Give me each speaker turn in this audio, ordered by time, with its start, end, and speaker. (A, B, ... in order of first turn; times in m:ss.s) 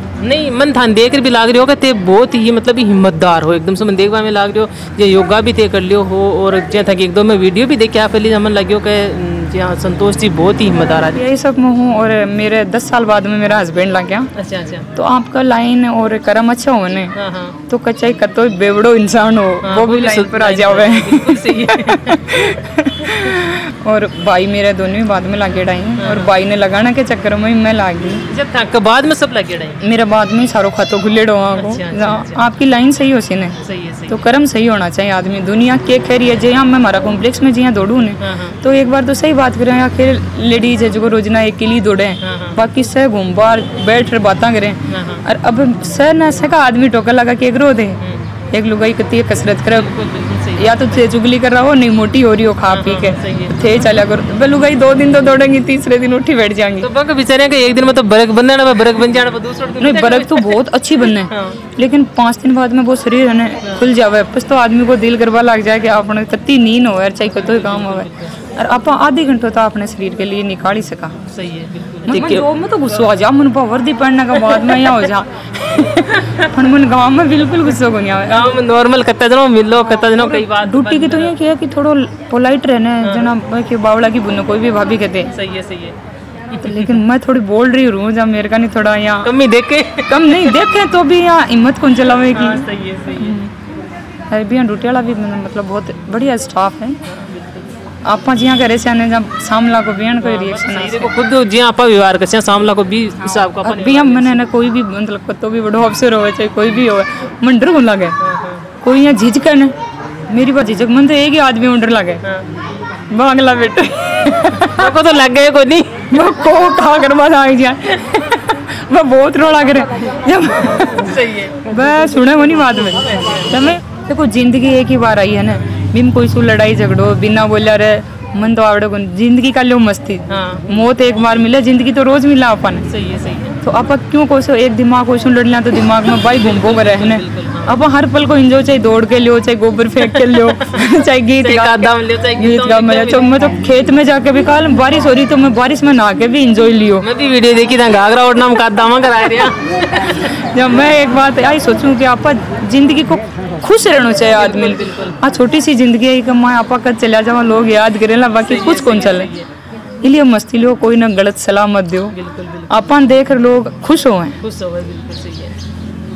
0:00.2-0:11.2 A
0:11.1-0:14.3 B
0:14.4-0:14.8 A
0:14.9-0:17.1 B
0:17.2-0:17.6 A
0:17.7-0:28.2 B
0:19.6-0:22.4 A
0:23.0-0:23.3 A
0:26.0-0:26.3 A
0:28.3-0:29.8 A
0:29.8-0:33.6 B
0:31.6-0:32.4 A
0:33.6-0:34.2 A
0:34.1-0:48.0 B
0:38.2-0:38.5 A
0:42.2-0:42.6 A
0:44.9-0:45.2 A
0:48.0-0:48.3 A
0:48.5-0:49.9 B
0:49.7-0:51.1 A
0:50.6-0:56.9 B
0:52.7-0:54.0 A
0:56.8-1:01.6 A
0:59.8-1:11.2 B
1:07.4-1:08.4 A
1:11.3-1:12.5 A
1:12.1-1:18.5 B
1:14.4-1:14.9 A
1:16.0-1:16.4 A
1:18.3-1:21.3 A
1:20.2-1:25.3 B
1:23.0-1:23.3 A
1:25.3-1:25.9 A
1:26.6-1:27.0 A
1:26.6-1:29.3 B
1:29.2-1:30.6 A
1:30.1-1:33.5 B
1:32.3-1:33.4 A
1:34.3-1:37.0 B
1:37.0-1:37.7 A
1:38.0-1:41.1 B
1:40.2-1:44.4 A
1:43.3-1:48.2 B
1:48.2-1:48.6 A
1:48.8-1:49.7 B
1:50.3-1:52.2 B
1:53.1-1:54.9 B
1:54.5-1:56.3 A
1:56.1-2:01.1 B
2:00.6-2:01.6 A
2:01.6-2:12.9 B
2:02.6-2:03.5 A
2:10.3-2:10.6 A
2:12.9-2:13.6 A
2:13.6-2:27.0 B
2:16.2-2:17.8 A
2:20.0-2:20.8 A
2:21.4-2:23.7 A
2:27.0-2:30.3 A
2:30.0-2:39.3 B
2:34.2-2:35.2 A
2:38.4-2:39.5 A
2:40.0-2:42.2 B
2:42.1-2:42.7 A
2:42.7-2:44.4 B
2:44.4-2:45.6 A